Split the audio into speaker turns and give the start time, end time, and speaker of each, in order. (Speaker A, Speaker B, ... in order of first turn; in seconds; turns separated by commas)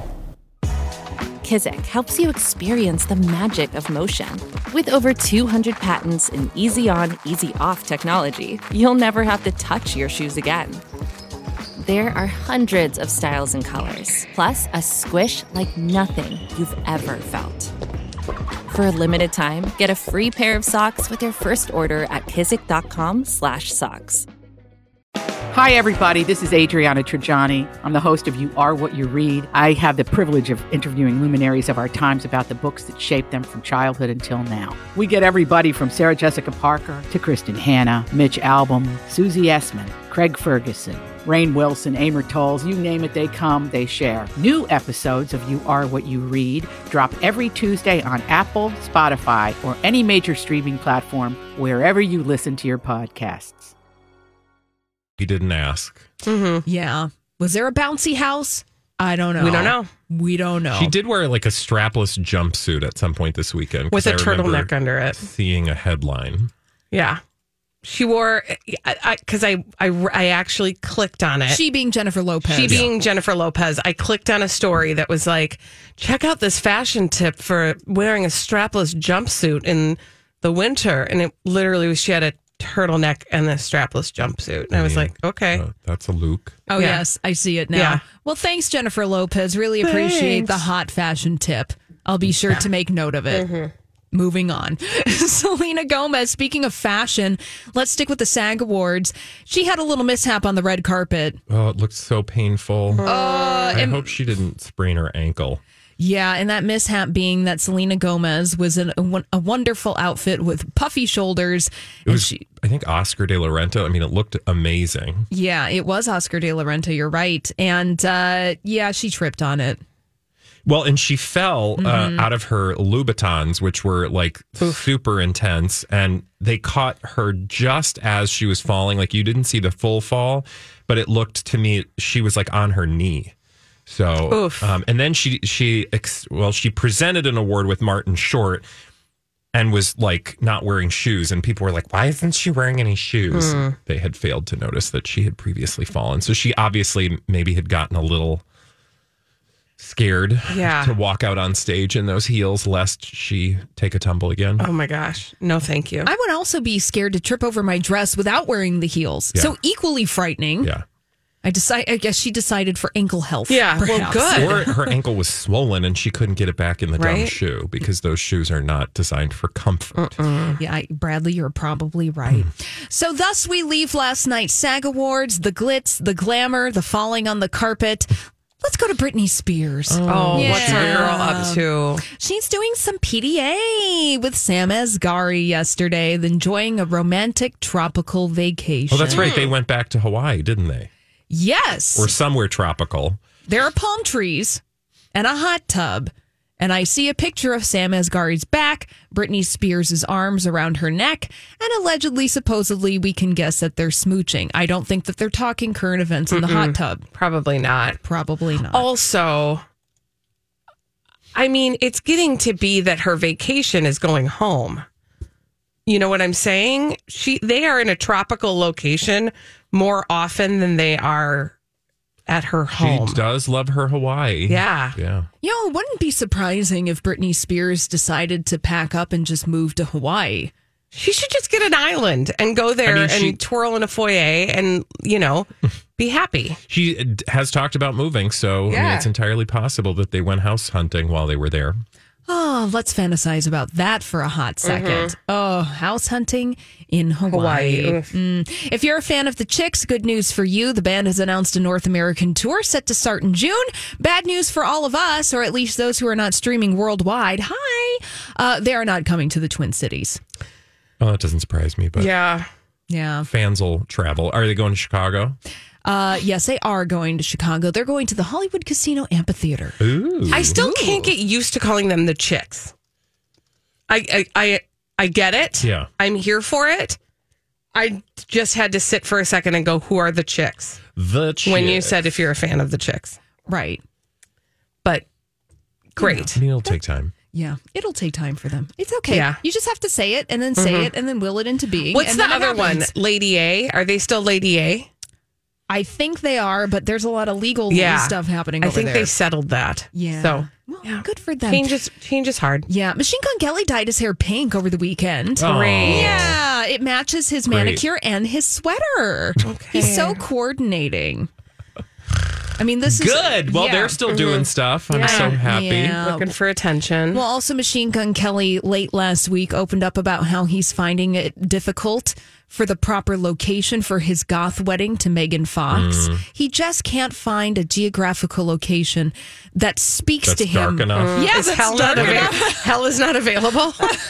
Speaker A: 1.4-10.8, Speaker A: 11.8-17.7, Speaker A: 18.7-24.2, Speaker B: 25.5-53.7, Speaker C: 55.2-56.0, Speaker D: 56.2-56.6, Speaker E: 56.6-60.9, Speaker D: 59.4-59.9, Speaker C: 60.7-66.5, Speaker D: 63.9-65.2, Speaker D: 66.9-67.2, Speaker D: 67.8-71.6, Speaker E: 71.5-72.8, Speaker D: 72.4-85.6, Speaker C: 72.7-72.9, Speaker C: 84.7-86.6, Speaker E: 86.7-93.5, Speaker D: 86.8-87.0, Speaker D: 87.7-88.0, Speaker C: 90.0-90.5, Speaker D: 93.3-93.7, Speaker E: 94.1-101.4, Speaker C: 101.5-103.0, Speaker D: 102.9-103.8, Speaker E: 103.0-104.1, Speaker C: 103.7-105.6, Speaker E: 106.0-112.4, Speaker C: 112.0-115.3, Speaker E: 115.3-119.8, Speaker C: 120.6-133.3, Speaker E: 121.8-122.3, Speaker C: 133.9-138.6, Speaker D: 134.3-134.7, Speaker C: 139.5-148.4, Speaker D: 143.3-143.8, Speaker C: 149.8-154.7, Speaker D: 150.5-150.9, Speaker D: 154.6-156.1, Speaker E: 156.0-160.7, Speaker E: 161.4-164.8, Speaker D: 163.5-164.7, Speaker C: 164.3-170.2, Speaker D: 167.0-167.3, Speaker D: 169.9-170.6, Speaker E: 170.6-189.3, Speaker C: 179.9-181.4, Speaker D: 180.1-182.0, Speaker C: 188.9-190.9, Speaker D: 189.1-189.5, Speaker E: 191.3-192.1, Speaker C: 191.9-193.2, Speaker E: 193.5-194.6, Speaker E: 195.1-207.0, Speaker D: 206.3-208.0, Speaker E: 208.0-208.9, Speaker D: 208.7-209.6, Speaker D: 211.3-214.8, Speaker D: 215.9-221.5, Speaker D: 222.3-223.2, Speaker C: 222.7-225.3, Speaker D: 224.5-224.9, Speaker E: 225.4-230.5, Speaker D: 230.9-236.6, Speaker C: 232.8-233.4, Speaker C: 236.7-241.8, Speaker D: 238.7-239.1, Speaker E: 242.3-260.2, Speaker D: 244.6-245.1, Speaker D: 247.3-248.1, Speaker C: 261.0-262.1, Speaker D: 262.0-262.5, Speaker E: 262.9-263.3, Speaker C: 263.2-265.4, Speaker E: 265.8-271.1, Speaker C: 269.8-270.6, Speaker D: 270.3-272.7, Speaker D: 273.9-277.0, Speaker C: 275.6-275.9, Speaker D: 277.7-280.8, Speaker C: 280.9-282.1, Speaker D: 281.4-283.2, Speaker E: 283.5-283.8, Speaker D: 285.9-286.4, Speaker E: 286.0-286.7, Speaker C: 286.3-287.1, Speaker E: 287.3-292.9, Speaker D: 289.1-289.4, Speaker D: 290.6-290.9, Speaker D: 291.9-294.9, Speaker E: 295.7-299.1, Speaker D: 297.7-302.7, Speaker E: 299.9-301.7, Speaker E: 302.7-311.3, Speaker C: 305.4-306.4, Speaker D: 305.4-306.3, Speaker C: 307.5-307.8, Speaker D: 309.4-310.2, Speaker E: 312.6-314.0, Speaker C: 312.8-316.0, Speaker D: 314.1-315.4, Speaker E: 315.0-316.3, Speaker D: 316.0-317.2, Speaker E: 317.1-332.7, Speaker C: 325.7-326.2, Speaker C: 330.2-332.4, Speaker D: 330.9-334.0